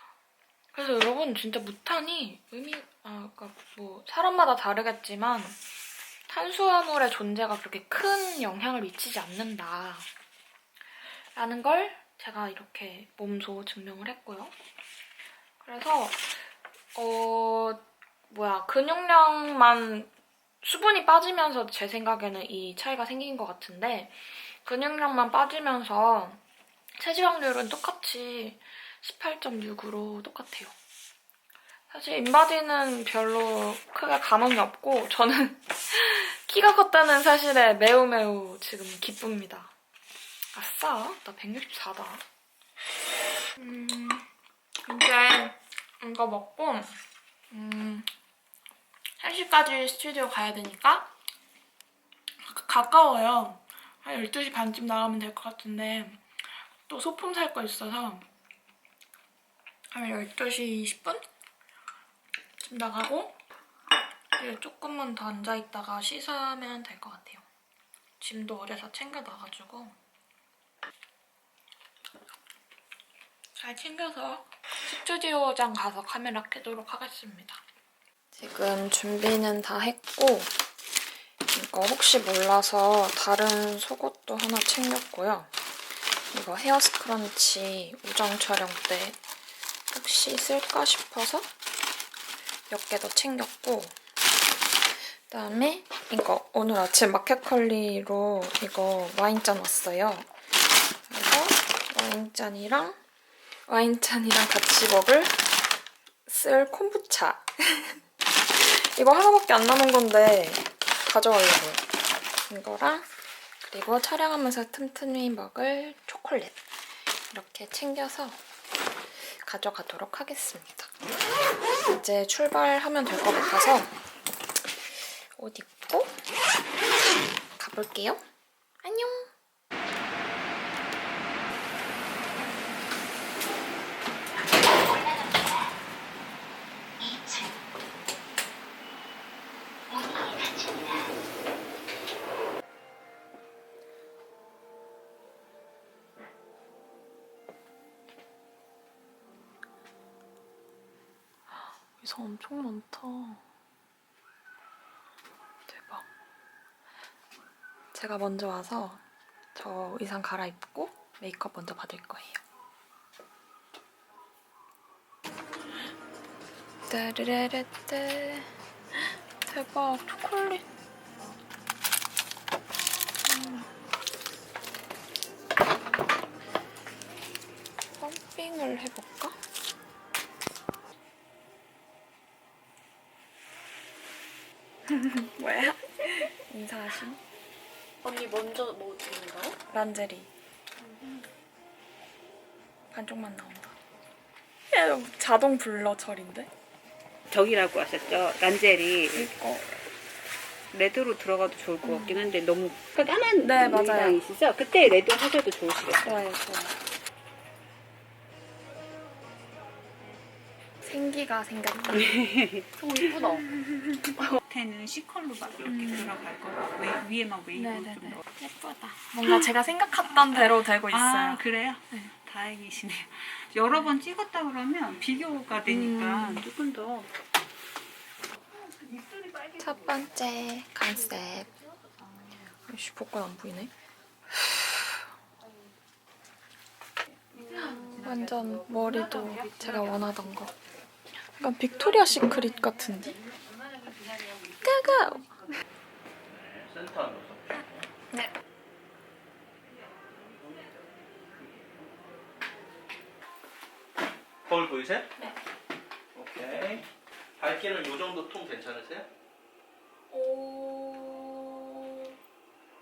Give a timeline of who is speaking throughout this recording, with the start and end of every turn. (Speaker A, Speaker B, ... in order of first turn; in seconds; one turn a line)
Speaker A: 0.7-5.6
Speaker A: 6.3-10.1
Speaker A: 11.3-14.5
Speaker A: 15.6-20.1
Speaker A: 20.6-26.4
Speaker A: 26.9-30.7
Speaker A: 31.9-39.7
Speaker A: 40.5-42.2
Speaker A: 43.6-44.2
Speaker A: 44.8-47.0
Speaker A: 47.5-48.1
Speaker A: 49.2-51.1
Speaker A: 52.4-56.2
Speaker A: 56.9-58.2
Speaker A: 59.9-61.2
Speaker A: 62.6-63.4
Speaker A: 64.3-67.4
Speaker A: 68.2-69.9
Speaker A: 73.5-77.6
Speaker A: 78.3-80.5
Speaker A: 81.5-85.5
Speaker A: 86.3-89.2
Speaker A: 89.9-91.5
Speaker A: 92.7-93.9
Speaker A: 95.3-100.3
Speaker A: 101.1-103.0
Speaker A: 103.7-105.4
Speaker A: 106.2-108.0
Speaker A: 108.5-111.8
Speaker A: 112.5-113.1
Speaker A: 113.6-116.6
Speaker A: 117.3-118.4
Speaker A: 119.2-120.9
Speaker A: 121.9-123.9
Speaker A: 125.3-126.2
Speaker A: 127.6-128.2
Speaker A: 128.8-129.3
Speaker A: 152.0-153.4
Speaker A: 155.7-156.1
Speaker A: 157.9-159.0
Speaker A: 159.5-162.4
Speaker A: 166.9-170.7
Speaker A: 173.3-173.7
Speaker A: 178.0-179.3
Speaker A: 184.9-187.2
Speaker B: 188.0-189.6
Speaker A: 189.7-190.3
Speaker A: 192.9-193.7
Speaker A: 194.7-196.5
Speaker C: 197.3-199.3
Speaker A: 199.1-199.7
Speaker C: 200.7-206.1
Speaker A: 201.8-202.2
Speaker A: 203.4-204.2
Speaker A: 206.0-206.7
Speaker A: 210.8-212.1
Speaker C: 211.9-212.7
Speaker B: 212.8-213.4
Speaker C: 214.3-218.2
Speaker A: 215.7-216.1
Speaker A: 217.5-222.1
Speaker C: 220.9-227.1
Speaker A: 225.6-226.4
Speaker C: 228.6-230.0
Speaker A: 229.6-231.5
Speaker A: 232.7-233.7
Speaker A: 234.4-234.9
Speaker A: 237.5-240.5
Speaker A: 241.4-243.2
Speaker A: 244.6-245.3
Speaker D: 246.3-247.6
Speaker D: 254.5-255.1
Speaker D: 256.1-256.8
Speaker D: 257.4-259.1
Speaker A: 260.1-262.1